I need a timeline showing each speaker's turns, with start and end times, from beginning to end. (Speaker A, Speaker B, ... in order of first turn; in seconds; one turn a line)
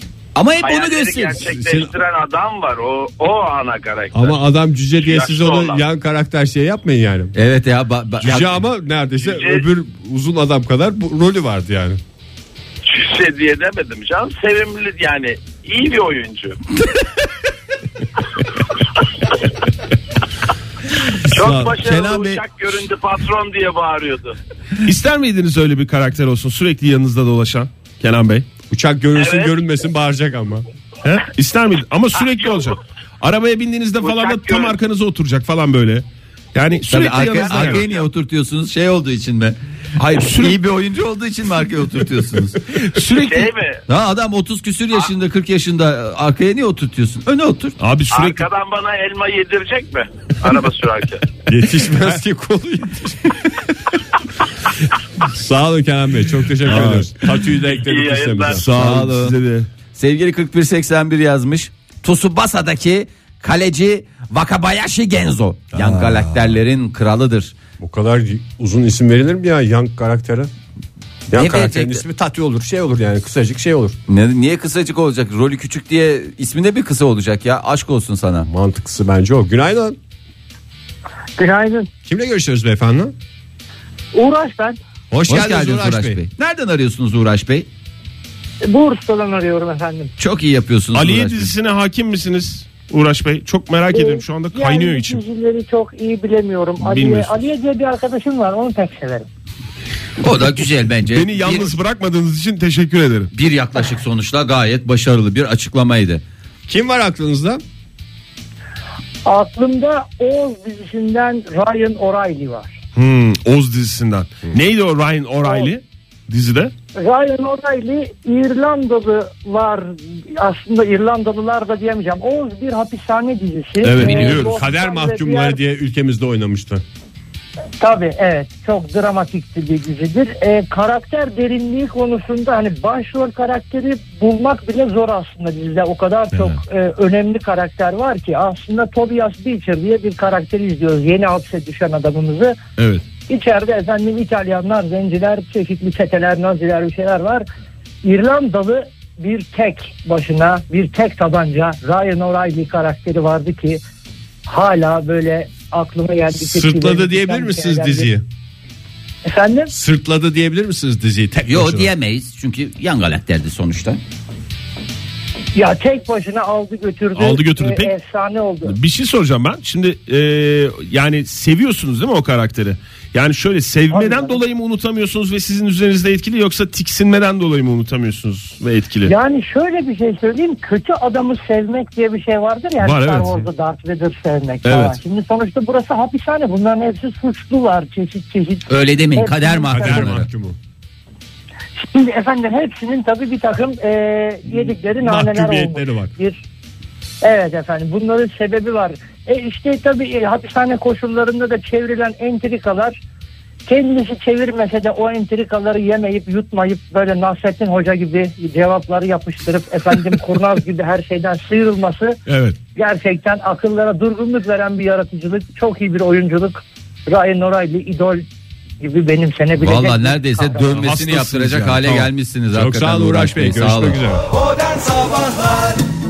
Speaker A: 0.3-1.5
Speaker B: 0.6-4.4
Speaker C: 1.4-1.9
Speaker C: 4.1-7.3
Speaker B: 5.0-5.8
Speaker A: 7.3-8.5
Speaker C: 8.2-12.0
Speaker B: 9.2-9.7
Speaker B: 12.8-16.6
Speaker A: 21.2-22.4
Speaker B: 21.3-24.4
Speaker D: 24.8-28.5
Speaker C: 28.7-30.6
Speaker B: 29.1-29.7
Speaker D: 31.0-37.9
Speaker B: 32.2-32.7
Speaker B: 34.0-34.8
Speaker A: 36.9-42.9
Speaker B: 37.2-38.1
Speaker D: 40.0-40.6
Speaker D: 42.8-43.5
Speaker B: 43.1-43.8
Speaker A: 43.9-47.8
Speaker D: 47.8-48.5
Speaker B: 48.1-51.3
Speaker C: 51.5-53.6
Speaker C: 55.2-58.6
Speaker D: 56.6-57.3
Speaker B: 57.8-58.6
Speaker D: 58.5-59.7
Speaker A: 58.7-59.4
Speaker A: 60.0-67.5
Speaker D: 65.7-66.4
Speaker C: 67.8-70.5
Speaker C: 71.3-74.0
Speaker A: 71.3-72.0
Speaker A: 74.1-78.5
Speaker C: 78.5-80.0
Speaker E: 81.4-81.9
Speaker C: 82.0-83.1
Speaker E: 84.1-84.8
Speaker C: 85.1-86.2
Speaker A: 85.3-87.7
Speaker E: 88.6-90.1
Speaker A: 90.2-91.5
Speaker D: 90.9-95.2
Speaker E: 93.9-99.3
Speaker D: 96.8-97.5
Speaker A: 100.2-101.7
Speaker D: 101.1-103.3
Speaker A: 103.3-106.2
Speaker C: 106.7-107.6
Speaker E: 109.2-112.8
Speaker D: 113.0-116.7
Speaker E: 115.4-115.7
Speaker E: 117.0-125.6
Speaker D: 123.8-124.7
Speaker C: 124.0-126.8
Speaker E: 127.8-142.6
Speaker D: 136.3-136.6
Speaker D: 142.8-143.0
Speaker E: 143.3-147.4
Speaker E: 148.0-153.8
Speaker E: 154.5-158.1
Speaker C: 156.4-158.2
Speaker E: 159.3-159.7
Speaker C: 159.7-161.9
Speaker A: 161.5-164.0
Speaker E: 165.6-168.8
Speaker D: 167.2-167.9
Speaker D: 168.6-179.1
Speaker E: 173.9-174.4
Speaker E: 179.1-190.1
Speaker D: 182.8-183.5
Speaker D: 184.7-185.0
Speaker A: 188.7-190.3
Speaker C: 189.7-190.6
Speaker E: 191.8-196.4
Speaker C: 194.5-196.1
Speaker E: 197.2-203.0
Speaker E: 203.7-212.2
Speaker D: 212.3-212.6
Speaker E: 212.8-218.2
Speaker E: 218.8-220.7
Speaker A: 219.6-224.0
Speaker D: 220.6-221.8
Speaker C: 221.8-224.2